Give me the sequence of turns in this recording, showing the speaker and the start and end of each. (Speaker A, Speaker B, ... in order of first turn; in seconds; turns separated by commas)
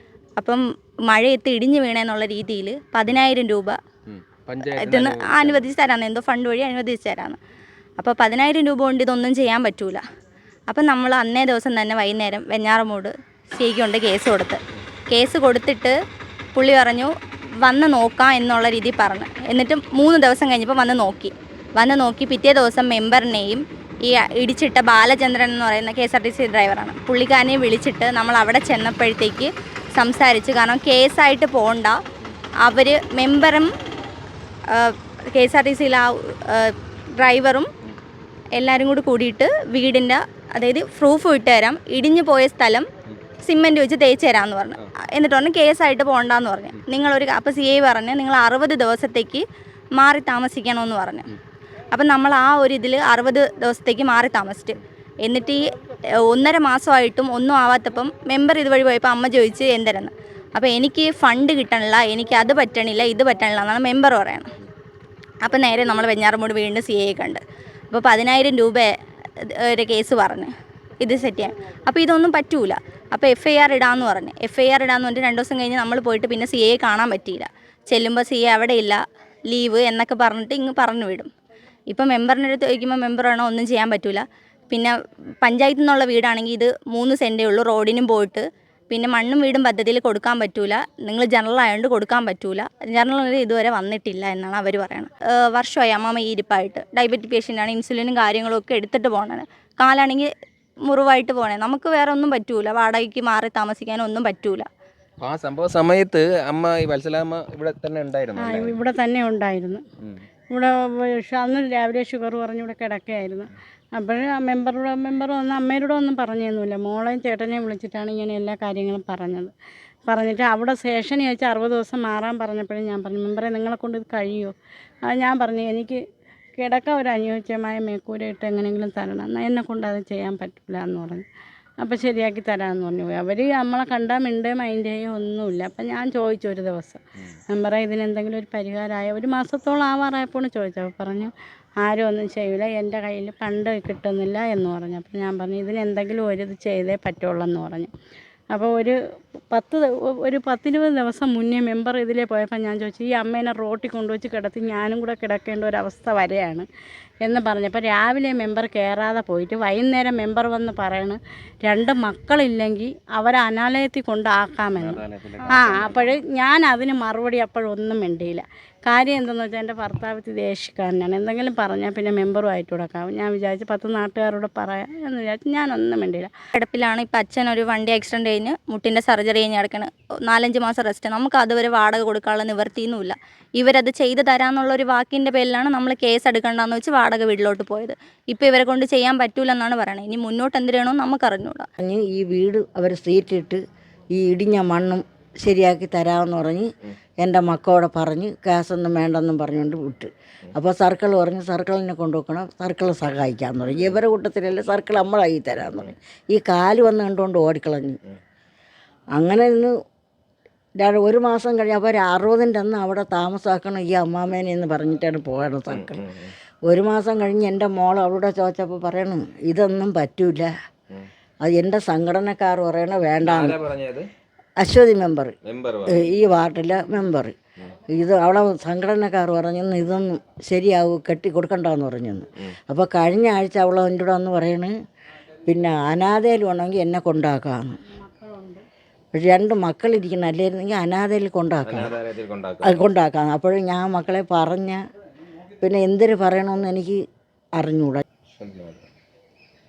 Speaker A: 0.4-3.8, Speaker B: 4.1-5.7, Speaker A: 4.6-7.4, Speaker A: 8.0-10.0, Speaker A: 10.7-15.9, Speaker A: 16.5-17.1, Speaker A: 17.6-32.0, Speaker A: 32.6-33.7, Speaker A: 34.7-37.7, Speaker A: 38.5-42.9, Speaker A: 43.4-49.4, Speaker A: 50.0-51.3, Speaker A: 51.9-55.7, Speaker A: 56.2-64.5, Speaker A: 65.4-81.3, Speaker A: 81.9-100.3, Speaker A: 100.9-104.7, Speaker B: 105.2-108.8, Speaker C: 108.3-109.8, Speaker C: 110.5-119.5, Speaker C: 120.1-126.0, Speaker C: 126.6-131.3, Speaker C: 131.8-147.9, Speaker C: 148.5-149.0, Speaker C: 149.5-156.7, Speaker C: 157.2-176.3, Speaker B: 164.7-166.2, Speaker A: 176.5-191.7, Speaker D: 191.8-193.6, Speaker D: 194.2-196.7, Speaker D: 197.2-208.0, Speaker D: 209.2-209.7, Speaker D: 210.8-216.0, Speaker B: 215.7-216.3, Speaker D: 216.7-220.5, Speaker D: 221.4-223.6, Speaker B: 223.2-224.1, Speaker D: 224.6-225.3, Speaker B: 225.4-226.1, Speaker D: 225.9-227.3, Speaker D: 227.9-234.7, Speaker D: 235.5-237.8, Speaker C: 237.9-238.7, Speaker D: 239.1-242.0, Speaker B: 241.6-242.9, Speaker D: 242.6-244.8, Speaker D: 245.6-247.0, Speaker D: 247.6-248.0, Speaker B: 248.3-248.8